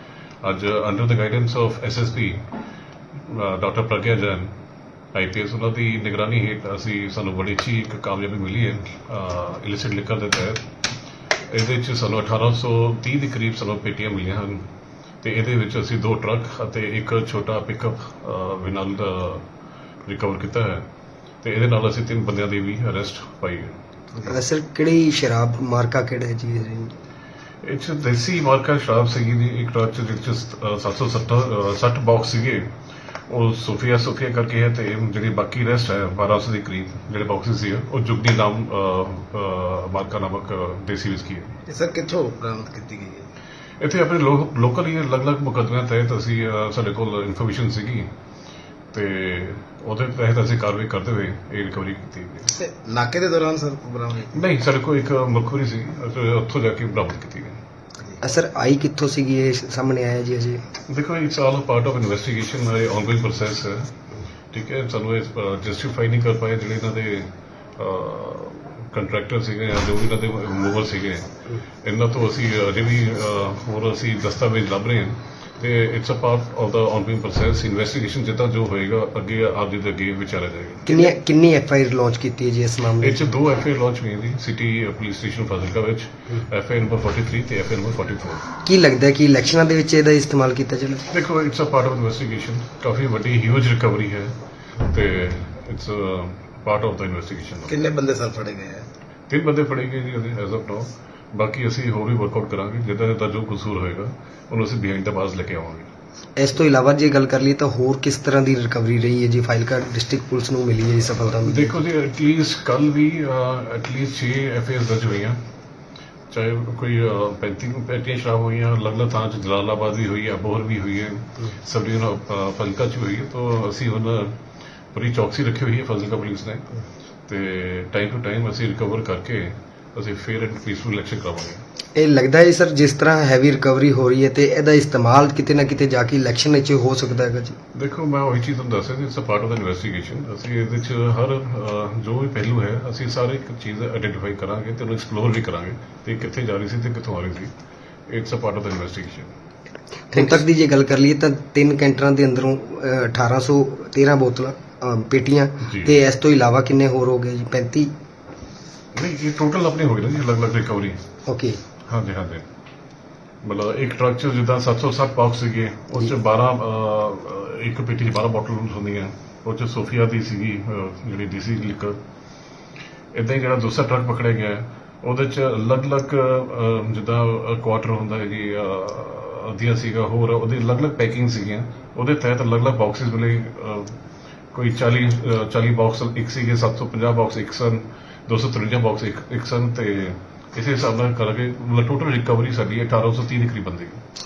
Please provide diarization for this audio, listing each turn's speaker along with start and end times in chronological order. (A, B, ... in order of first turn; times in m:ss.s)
0:00.4-0:02.5 A
0:03.3-0:04.6 A
0:05.1-0:10.6 A
0:11.5-0:14.7 A
0:15.2-0:19.5 A
0:20.1-0:20.9 A
0:21.4-0:23.8 A
0:24.2-0:26.9 B
0:27.6-0:32.7 A
0:33.3-0:41.6 A
0:41.7-0:43.3 C
0:43.8-0:48.1 A
0:48.9-0:52.5 A
0:52.5-0:54.4 C
0:54.4-0:57.6 A
0:58.2-1:00.6 B
1:00.9-1:03.9 A
1:04.5-1:11.3 A
1:11.8-1:21.1 A
1:20.9-1:23.4 B
1:23.0-1:28.5 A
1:28.6-1:31.1 B
1:31.1-1:37.7 A
1:37.7-1:38.9 C
1:39.3-1:45.9 A
1:46.4-1:51.8 B
1:51.4-1:55.4 A
1:56.3-2:04.4 A
2:04.9-2:06.6 A
2:07.3-2:11.6 A
2:12.0-2:17.6 B
2:17.7-2:27.5 A
2:28.1-2:29.3 A
2:30.1-2:37.9 B
2:35.6-2:35.9 A
2:38.9-2:41.0 A
2:41.3-2:41.6 B
2:41.9-2:42.4 A
2:43.4-2:52.0 A
2:53.1-3:04.0 A
3:04.5-3:14.0 A